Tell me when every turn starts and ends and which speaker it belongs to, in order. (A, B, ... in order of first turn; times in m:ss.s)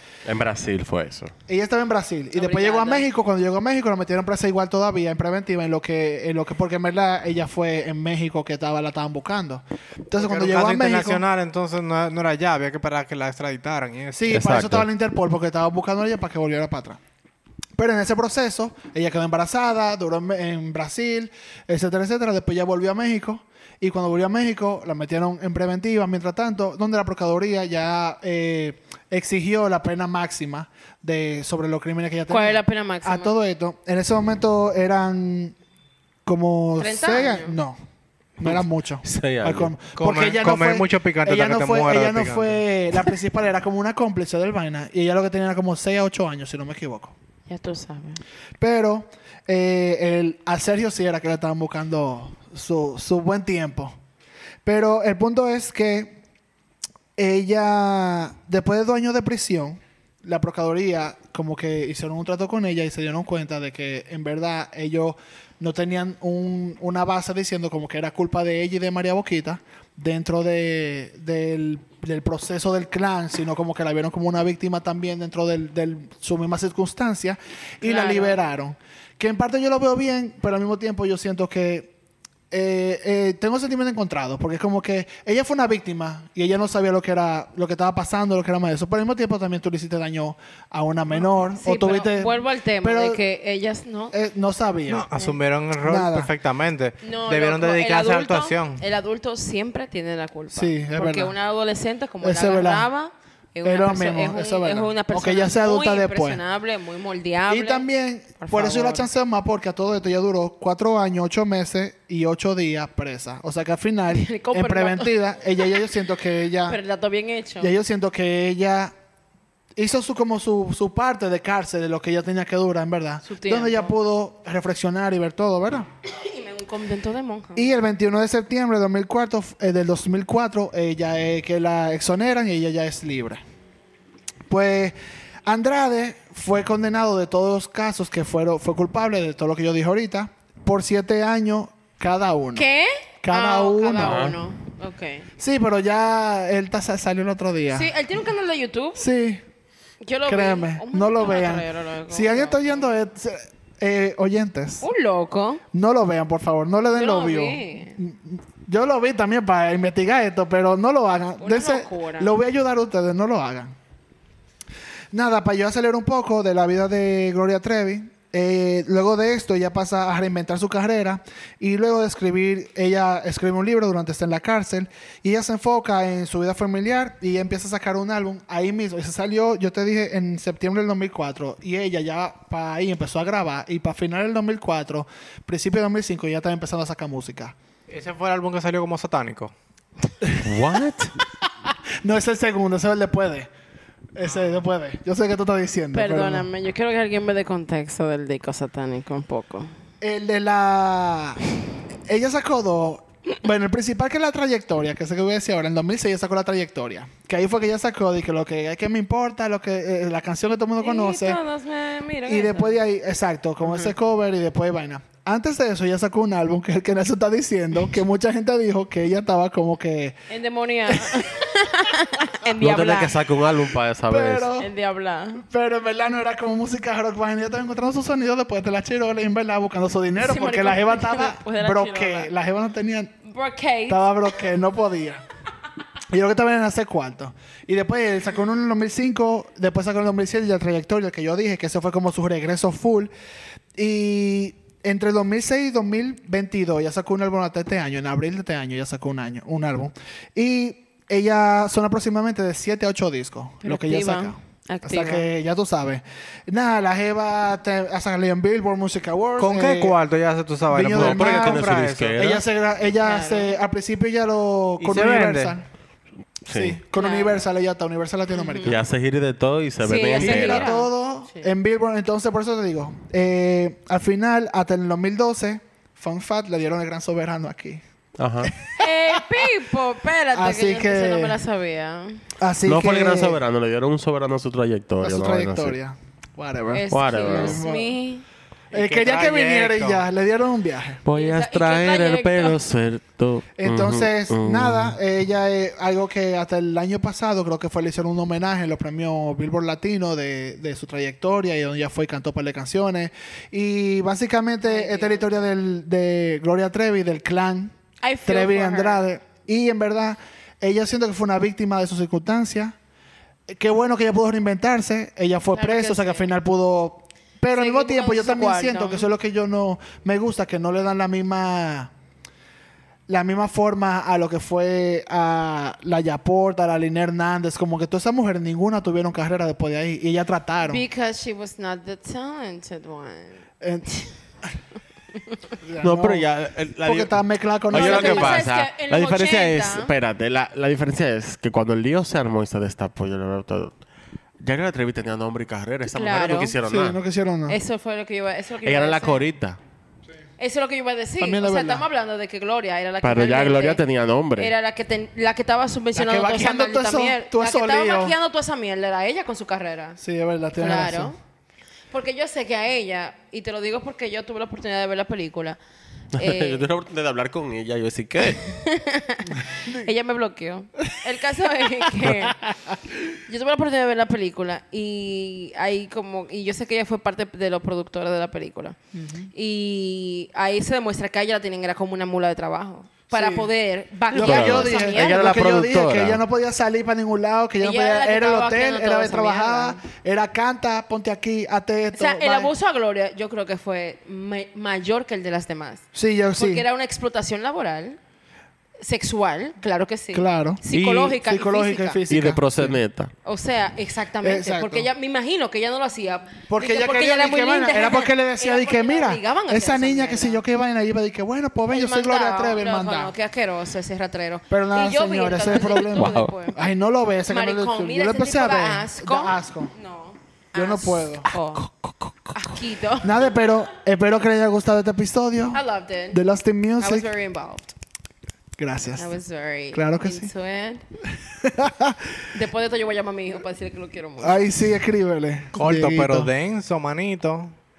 0:00.2-0:01.3 A
0:01.5-0:11.2 B
0:02.3-0:03.1 C
0:10.2-0:14.4 D
0:14.2-0:17.0 B
0:14.3-0:14.9 A
0:17.8-0:35.6 B
0:32.3-0:33.3 C
0:36.2-0:37.8 B
0:36.8-0:37.6 C
0:38.4-0:47.1 B
0:39.0-0:39.7 A
0:40.0-0:42.6 D
0:47.5-0:48.2 C
0:48.6-0:54.0 B
0:54.6-0:56.2 B
0:57.2-1:21.9 B
1:17.8-1:18.4 C
1:22.5-1:33.2 B
1:31.2-1:34.2 C
1:34.1-1:35.1 B
1:34.9-1:38.8 D
1:35.8-1:36.3 B
1:37.0-1:47.9 C
1:40.5-1:41.3 B
1:42.2-1:42.9 B
1:43.6-1:46.4 B
1:47.5-1:56.8 B
1:48.4-1:49.1 C
1:54.1-1:55.1 C
1:56.7-1:57.7 C
1:57.6-1:58.9 B
1:59.8-2:05.9 B
2:03.3-2:04.0 C
2:06.1-2:07.8 C
2:07.6-2:13.4 B
2:14.5-2:22.7 B
2:22.6-2:25.3 C
2:23.2-2:24.3 B
2:24.0-2:24.4 A
2:25.4-2:27.9 B
2:27.7-2:29.0 C
2:29.0-2:29.4 B
2:30.0-2:32.9 C
2:30.3-2:34.9 B
2:34.8-2:35.6 C
2:35.7-2:43.7 B
2:36.9-2:38.0 C
2:41.4-2:42.3 C
2:45.1-3:07.6 B
3:07.9-3:09.5 D
3:10.4-3:11.1 A
3:12.0-3:13.5 B
3:14.2-3:16.5 B
3:15.9-3:19.7 C
3:20.0-3:21.4 B
3:22.1-3:31.4 B
3:30.8-3:32.8 C
3:32.3-3:40.2 B
3:40.3-3:43.2 C
3:40.9-3:41.3 B
3:42.6-3:44.5 A
3:44.1-3:44.7 B
3:44.6-3:45.4 C
3:45.4-3:53.1 B
3:50.2-3:52.3 C
3:53.2-3:54.0 C
3:53.9-3:55.2 B
3:56.1-4:03.1 B
4:03.8-4:20.0 B
4:13.6-4:15.3 C
4:19.4-4:22.2 D
4:20.7-4:25.7 B
4:20.9-4:22.4 A
4:23.0-4:23.5 C
4:24.8-4:25.6 D
4:26.5-4:26.8 A
4:26.5-4:28.8 B
4:27.0-4:27.4 C
4:28.3-4:28.8 C
4:28.6-4:30.8 A
4:29.8-4:31.4 C
4:30.2-4:37.8 B
4:38.2-4:38.5 A
4:38.4-4:39.5 B
4:38.8-4:42.2 C
4:40.3-4:41.4 B
4:42.4-4:43.4 B
4:42.7-4:45.8 A
4:45.0-4:47.9 B
4:46.7-4:48.2 C
4:46.9-4:47.6 A
4:48.7-4:50.0 D
4:48.7-4:51.0 B
4:51.0-4:55.0 A
4:51.1-4:52.6 C
4:53.6-5:07.7 B
5:04.7-5:05.4 C
5:08.0-5:09.0 C
5:08.2-5:12.8 B
5:13.5-5:21.9 B
5:15.5-5:16.3 C
5:17.5-5:19.1 C
5:23.1-5:30.8 B
5:30.6-5:34.1 C
5:33.6-5:33.9 B
5:35.6-5:36.3 B
5:35.8-5:37.2 A
5:36.8-5:38.5 B
5:37.7-5:43.8 A
5:37.7-5:39.9 C
5:44.4-5:47.0 A
5:45.9-5:46.5 C
5:46.6-5:47.6 B
5:47.5-5:49.2 C
5:48.6-5:49.6 A
5:50.4-5:53.8 C
5:51.2-5:51.8 B
5:53.0-5:54.5 A
5:54.4-6:00.0 C
5:56.0-5:58.2 B
6:00.0-6:01.1 B
6:00.6-6:01.2 C
6:01.9-6:05.6 C
6:06.2-6:06.7 C
6:06.2-6:08.5 A
6:08.4-6:12.4 C
6:13.1-6:18.8 C
6:18.9-6:19.3 B
6:19.3-6:25.3 C
6:23.1-6:23.5 B
6:24.1-6:26.2 A
6:24.1-6:32.5 B
6:27.6-6:29.8 C
6:32.0-6:35.9 C
6:35.9-6:36.7 B
6:36.4-6:38.0 C
6:38.8-6:42.0 C
6:40.1-6:42.8 B
6:42.1-6:43.1 A
6:43.2-6:50.4 C
6:44.2-6:44.9 B
6:46.5-6:53.1 B
6:51.7-6:56.6 C
6:54.5-6:59.7 B
6:55.9-6:56.3 A
6:57.3-7:01.6 C
7:00.5-7:01.3 B
7:02.3-7:03.2 C
7:03.0-7:05.6 B
7:05.5-7:06.2 C
7:06.1-7:07.1 B
7:06.8-7:07.7 C
7:08.6-7:09.1 B
7:09.0-7:10.8 C
7:09.7-7:10.3 B
7:11.2-7:12.2 B
7:12.3-7:14.5 C
7:14.2-7:16.3 B
7:15.6-7:17.6 D